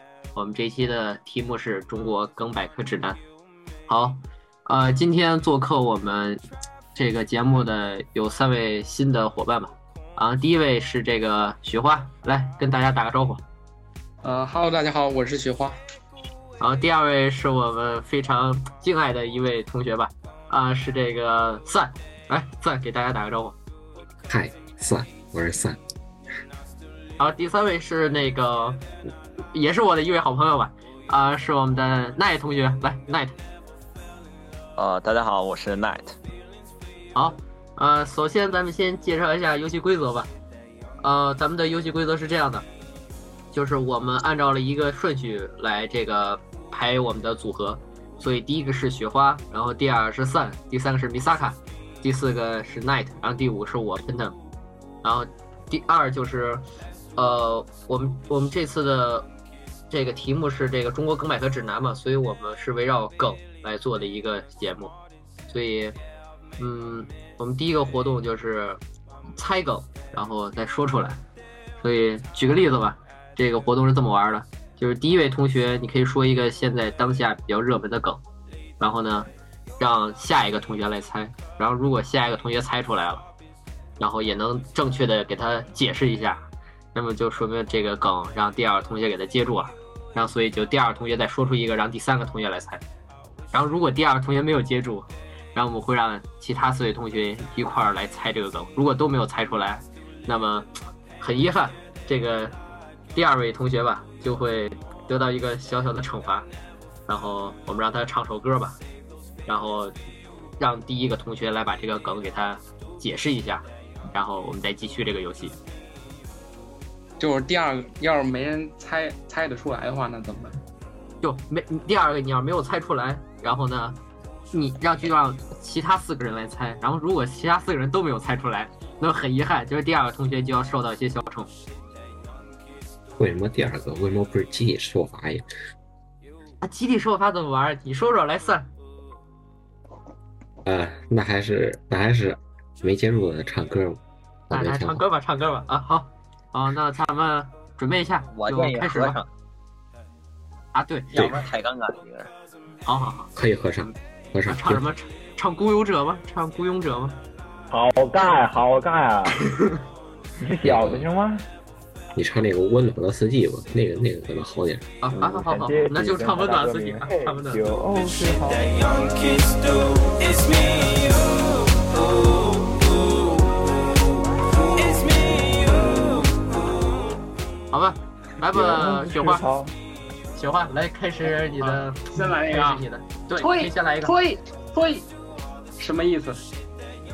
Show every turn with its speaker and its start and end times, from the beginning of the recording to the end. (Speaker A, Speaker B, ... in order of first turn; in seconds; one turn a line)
Speaker A: 0.3-3.2
Speaker A: 3.9-6.4
Speaker A: 7.0-13.4
Speaker B: 14.2-15.8
Speaker A: 16.6-23.6
Speaker C: 24.3-25.8
Speaker A: 27.2-33.4
Speaker D: 34.8-36.2
Speaker A: 37.1-40.3
Speaker A: 41.0-42.7
Speaker A: 43.5-54.4
Speaker A: 55.0-56.7
Speaker A: 57.2-59.3
Speaker A: 59.9-65.0
Speaker A: 65.5-66.0
Speaker A: 66.6-68.8
Speaker A: 69.4-71.2
Speaker A: 71.8-78.2
Speaker A: 78.8-83.3
Speaker A: 84.0-92.8
Speaker A: 93.5-102.5
Speaker A: 103.1-106.5
Speaker A: 107.1-108.8
Speaker A: 109.5-109.9
Speaker A: 110.6-115.6
Speaker B: 117.2-120.6
Speaker A: 121.2-124.0
Speaker A: 124.5-131.5
Speaker C: 133.2-135.4
Speaker A: 136.6-138.7
Speaker C: 140.7-145.1
Speaker A: 144.5-149.2
Speaker D: 148.3-149.3
Speaker A: 150.7-151.3
Speaker D: 151.1-152.3
Speaker A: 152.8-153.9
Speaker C: 153.4-154.8
Speaker A: 154.5-157.2
Speaker E: 157.7-159.5
Speaker E: 160.4-161.5
Speaker C: 160.7-161.1
Speaker C: 162.2-164.9
Speaker A: 165.0-167.8
Speaker E: 165.1-168.7
Speaker F: 167.9-173.7
Speaker F: 174.7-176.9
Speaker A: 177.7-179.5
Speaker E: 178.5-179.7
Speaker A: 180.3-184.2
Speaker B: 181.6-182.8
Speaker B: 183.4-185.1
Speaker B: 185.8-186.4